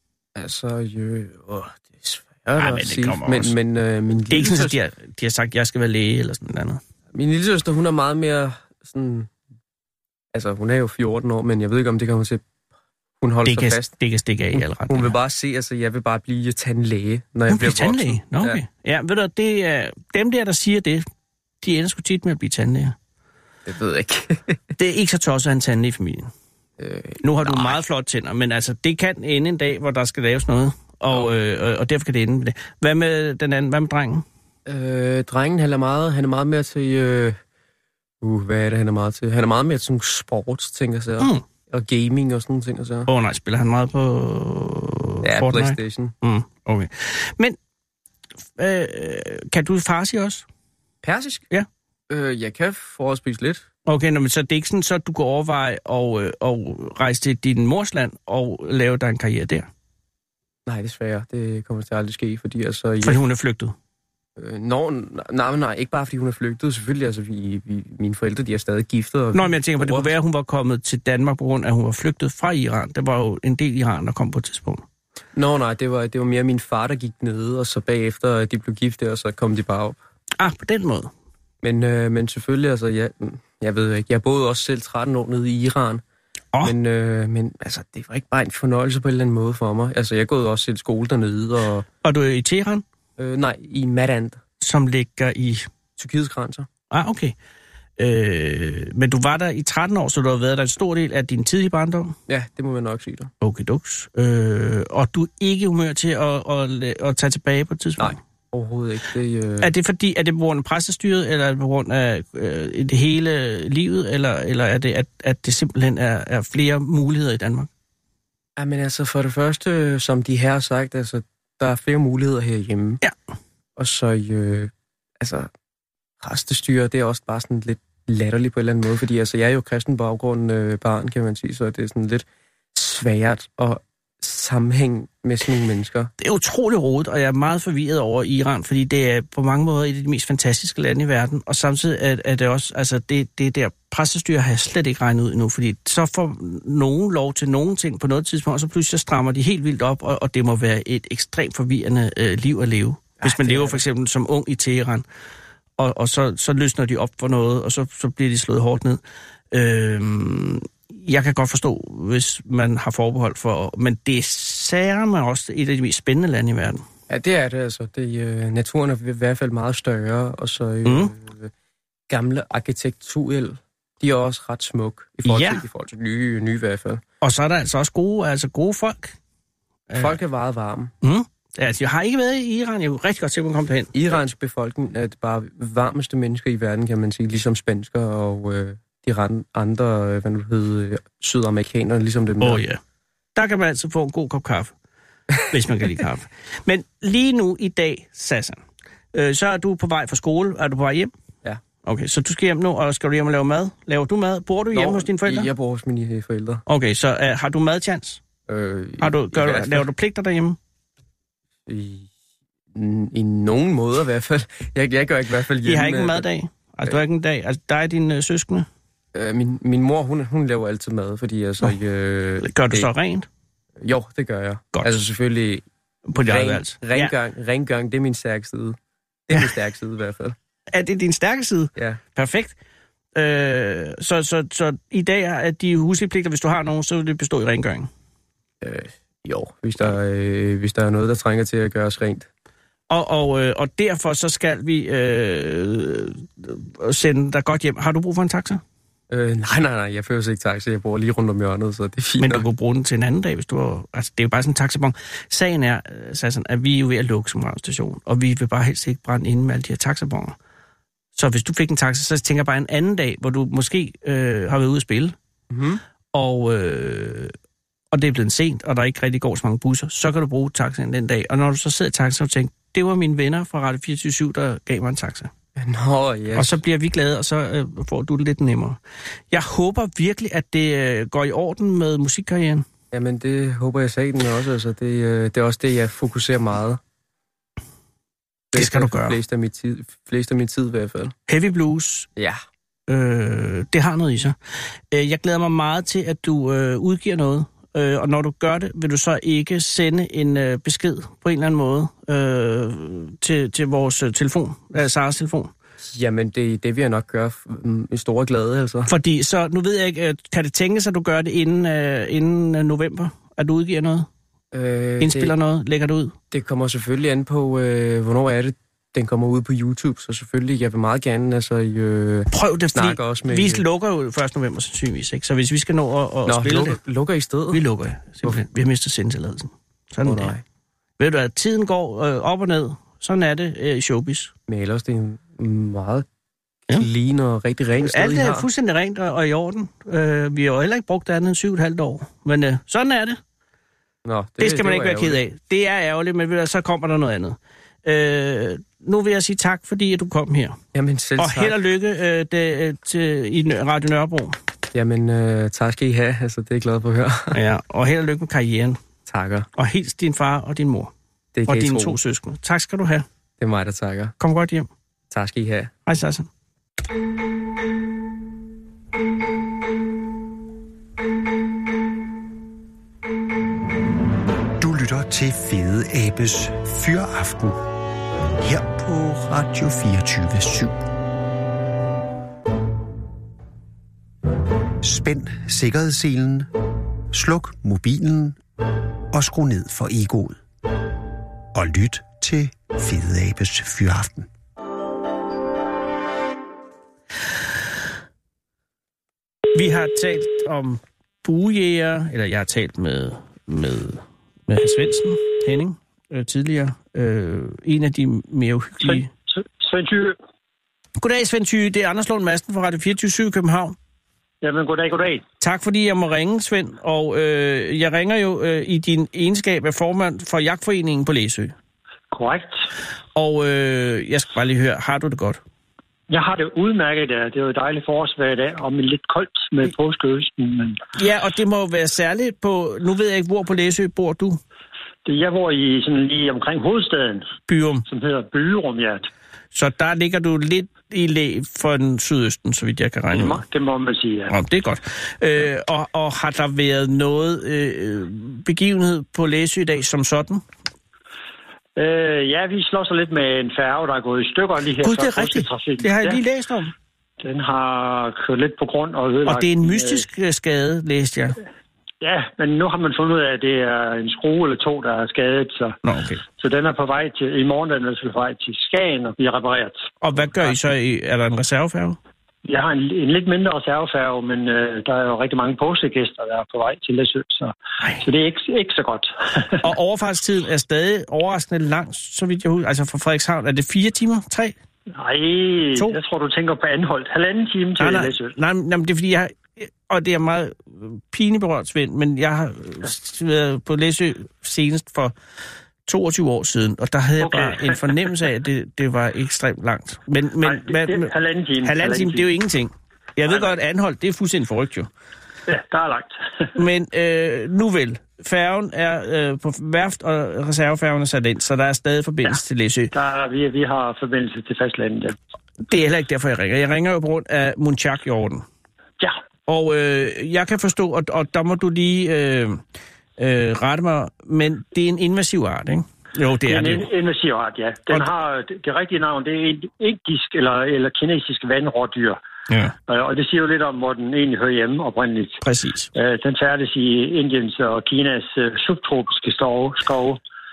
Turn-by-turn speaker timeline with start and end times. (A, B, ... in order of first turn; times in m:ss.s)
0:00.3-0:04.8 A
0:02.6-0:03.5 B
0:04.3-0:06.8 B
0:07.1-0:09.3 A
0:10.3-0:12.4 A
0:13.2-0:13.9 A
0:13.4-0:15.1 B
0:14.5-0:18.6 A
0:17.5-0:21.0 B
0:21.6-0:22.9 B
0:23.6-0:24.6 A
0:24.8-0:26.3 B
0:26.8-0:27.8 A
0:27.2-0:34.2 B
0:34.6-0:37.4 A
0:38.2-0:43.1 A
0:43.1-0:47.6 B
0:45.2-0:46.1 A
0:48.6-0:50.4 B
0:51.0-0:51.4 A
0:52.1-0:53.6 A
0:53.8-0:59.7 B
1:00.6-1:03.2 A
1:03.0-1:03.7 B
1:04.4-1:10.1 A
1:09.3-1:14.8 B
1:15.3-1:20.0 A
1:20.4-1:21.1 B
1:21.6-1:26.0 A
1:26.6-1:31.8 A
1:32.0-1:32.8 B
1:33.2-1:34.4 A
1:34.6-1:35.7 B
1:36.0-1:36.7 A
1:36.9-1:37.4 B
1:38.0-1:42.2 B
1:42.3-1:43.3 A
1:43.4-1:48.2 B
1:48.0-1:49.7 A
1:49.6-1:57.7 B
1:58.6-2:03.0 A
2:03.8-2:05.5 A
2:06.2-2:16.1 A
2:16.2-2:35.0 B
2:33.2-2:33.8 A
2:35.8-2:39.0 B
2:39.5-2:46.8 B
2:47.1-2:51.5 A
2:50.8-2:51.1 B
2:52.1-2:57.0 A
2:55.2-2:55.6 B
2:57.2-2:59.1 B
2:59.9-3:00.2 B
2:59.9-3:00.9 A
3:01.0-3:03.9 B
3:03.9-3:12.6 A
3:12.4-3:12.8 B
3:13.3-3:14.7 B
3:15.5-3:18.6 B
3:19.1-3:21.1 B
3:21.8-3:25.5 B
3:24.7-3:26.6 A
3:26.7-3:28.2 B
3:28.5-3:29.8 A
3:29.0-3:30.6 B
3:31.7-3:32.1 A
3:32.7-3:36.2 A
3:35.6-3:38.7 B
3:39.1-3:42.9 A
3:42.4-3:43.2 B
3:43.8-3:48.8 A
3:46.1-3:47.1 B
3:49.3-3:50.3 A
3:50.7-3:52.5 B
3:53.1-3:57.9 B
3:58.6-4:02.3 A
4:02.9-4:08.6 B
4:09.1-4:12.4 A
4:12.2-4:20.3 B
4:21.2-4:25.1 B
4:25.5-4:25.8 A
4:26.1-4:27.3 B
4:27.9-4:35.3 B
4:35.6-4:36.6 A
4:36.3-4:38.8 B
4:39.3-4:42.6 B
4:42.9-4:46.8 A
4:48.5-4:51.1 A
4:48.5-4:49.2 B
4:51.3-4:52.1 B
4:52.2-4:52.4 A
4:52.9-4:54.4 B
4:54.9-5:05.5 B
5:05.8-5:08.9 A
5:08.9-5:14.1 B
5:14.5-5:15.3 A
5:15.0-5:16.1 B
5:16.3-5:23.6 A
5:22.3-5:26.8 B
5:26.2-5:27.6 A
5:27.5-5:30.3 B
5:30.0-5:30.4 A
5:31.0-5:34.3 B
5:34.5-5:36.0 A
5:36.7-5:38.5 A
5:37.8-5:43.2 B
5:44.0-5:45.2 A
5:44.4-5:50.6 B
5:50.7-5:51.6 A
5:51.2-5:54.4 B
5:54.7-5:57.4 A
5:57.3-5:58.8 B
5:59.0-5:59.5 A
5:59.6-6:00.9 B
6:01.3-6:02.0 A
6:01.5-6:03.0 B
6:03.4-6:04.1 A
6:04.2-6:04.7 B
6:05.1-6:05.7 A
6:05.8-6:06.3 B
6:14.6-6:17.6 C
6:18.4-6:20.8 C
6:24.8-6:26.5 C
6:27.1-6:28.4 C
6:29.1-6:30.4 C
6:31.5-6:34.3 C
6:39.5-6:49.1 B
6:48.8-6:50.2 D
6:51.0-6:53.8 B
6:54.4-6:55.2 D
6:55.4-7:01.5 B
7:02.1-7:02.6 D
7:03.1-7:05.4 B
7:06.1-7:10.8 D
7:11.0-7:14.4 B
7:15.0-7:17.3 D
7:17.5-7:17.8 B
7:17.9-7:19.1 D
7:19.5-7:23.4 B
7:23.1-7:24.3 D
7:24.3-7:30.4 B
7:31.8-7:36.2 D
7:34.8-7:36.7 B
7:37.2-7:40.0 D
7:39.2-7:41.4 B
7:42.0-7:45.8 D
7:45.8-7:46.2 B
7:46.4-7:49.9 D
7:50.0-7:52.0 B
7:52.4-7:59.6 D
7:59.6-8:04.5 B
8:04.9-8:08.3 D
8:07.8-8:15.1 B
8:15.8-8:21.1 B
8:17.2-8:18.1 D
8:20.4-8:22.3 D
8:21.6-8:24.9 B
8:23.3-8:23.6 D
8:25.5-8:26.5 D
8:26.6-8:32.9 B
8:32.9-8:35.2 D
8:35.6-8:38.4 B
8:39.5-8:42.6 B
8:43.2-8:46.9 B
8:46.5-8:52.2 D
8:52.9-8:55.4 D
8:55.4-8:55.9 B
8:55.9-9:00.2 D